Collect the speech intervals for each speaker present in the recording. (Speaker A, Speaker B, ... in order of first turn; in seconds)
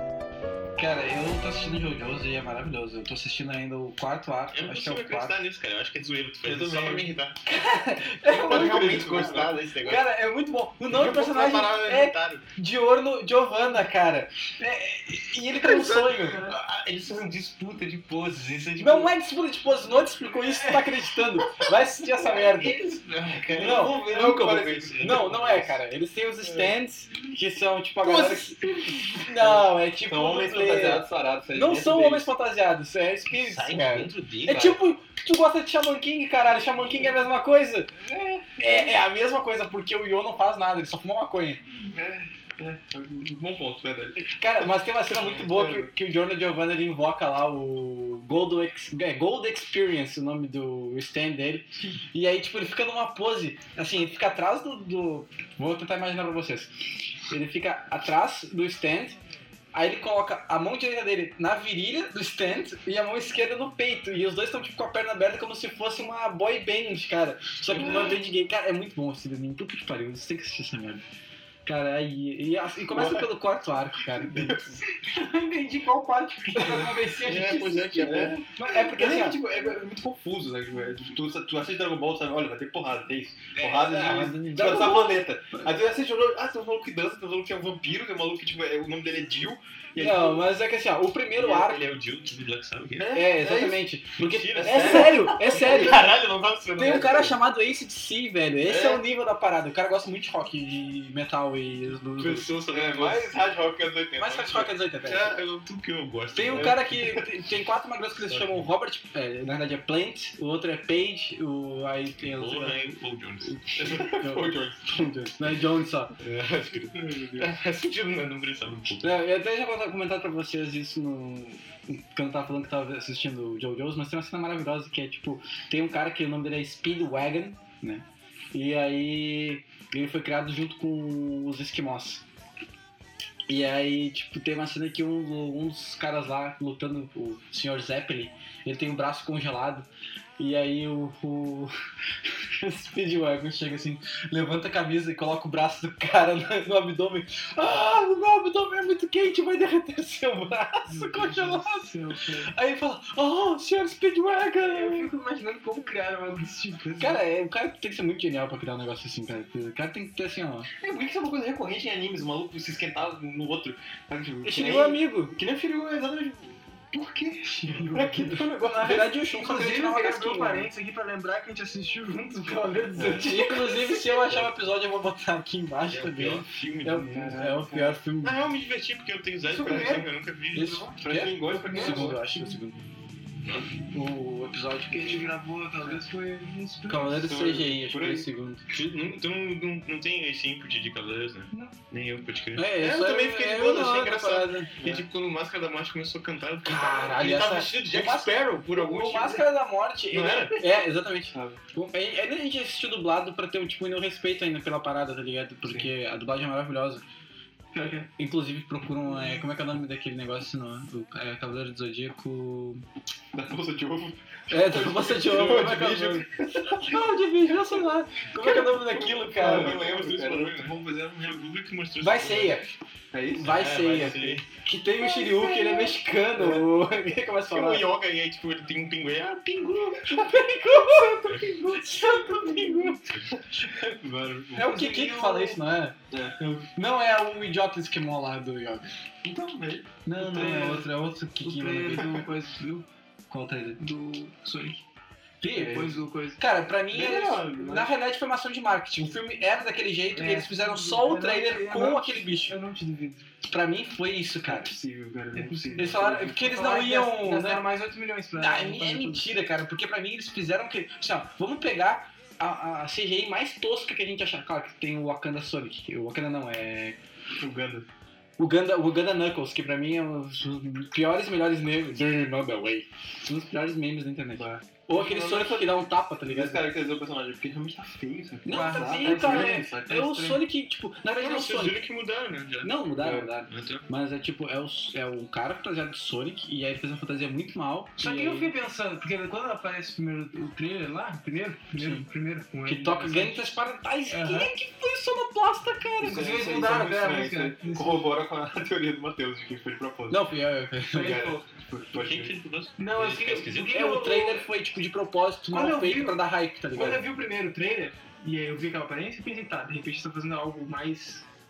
Speaker A: 0.8-5.4, 7.5-9.3, 9.8-16.4, 18.8-22.8, 23.6-24.0, 25.0-28.6, 29.1-37.9, 38.6-41.6, 44.2-56.7, 57.3-59.2, 59.7-71.0, 71.7-74.6, 76.5-79.4, 83.6-85.2, 90.0-91.8, 93.1-96.0, 96.8-102.5, 104.2-105.4, 106.3-116.1, 119.0-132.2, 133.5-139.9, 140.4-141.7, 142.3-151.9, 152.5-155.1, 157.0-160.7, 164.4-165.4, 168.8-170.7, 173.2-178.5, 180.6-182.8, 183.9-185.3, 186.9-188.7, 192.6-194.7, 196.7-207.0, 208.2-212.8, 214.5-216.3, 216.8-219.8, 222.0-222.7, 223.3-227.9, 230.1-233.0, 234.6-236.0, 236.8-238.8, 240.1-242.2, 243.3-243.8, 245.4-252.6, 253.4-254.8, 255.8-257.6, 258.4-267.0, 268.4-276.7, 278.4-281.8, 282.6-288.5, 291.8-292.1, 292.7-296.4, 300.1-301.3, 303.7-307.0
Speaker B: 4.5-7.4, 8.4-10.1, 10.9-12.4, 15.6-19.1, 22.3-25.5, 33.3-34.8, 77.2-78.4, 83.7-84.3, 91.4-93.1, 94.2-97.3, 102.2-103.3, 105.0-106.9, 108.2-108.7, 112.2-113.6, 116.2-119.2, 175.9-177.4, 178.2-180.9, 188.7-199.4, 200.1-200.7, 219.4-222.6, 223.5-224.4, 227.5-230.2, 281.2-282.8, 283.5-283.8, 301.9-303.9
Speaker C: 6.4-7.1, 8.3-9.6, 23.4-25.7, 26.4-26.7, 28.1-32.3, 34.5-34.8, 38.0-38.8, 41.9-44.2, 45.2-45.9, 67.7-68.2, 72.9-73.3, 74.1-74.8, 78.0-90.5, 93.0-93.9, 94.5-96.0, 96.8-97.3, 98.7-99.0, 102.7-104.7, 106.5-107.2, 113.8-114.8, 116.9-117.6, 160.8-168.7, 173.0-173.3, 177.1-178.0, 179.7-179.9, 181.0-182.2, 187.2-188.3, 194.8-195.1, 201.3-201.6, 205.6-205.9, 213.3-217.0, 218.4-220.8, 223.1-224.4, 226.4-226.7, 233.6-234.7, 236.1-236.7, 239.2-240.8, 246.9-247.9, 254.5-256.6, 267.3-267.9, 274.4-280.4, 282.9-283.3, 296.0-300.3, 300.9-302.4
Speaker D: 22.1-22.8, 75.0-77.2, 78.7-79.2, 150.9-152.5, 154.6-157.2, 167.6-174.1, 179.5-180.1, 181.6-182.6, 184.9-187.3, 207.7-208.1, 225.0-226.0, 230.9-233.0, 234.6-235.6, 240.2-240.9, 241.4-242.9, 243.8-244.8, 245.5-246.4, 250.1-253.3, 255.3-259.3, 278.5-279.7, 288.0-294.5, 296.0-298.1, 300.9-301.4, 302.8-304.4, 305.5-311.2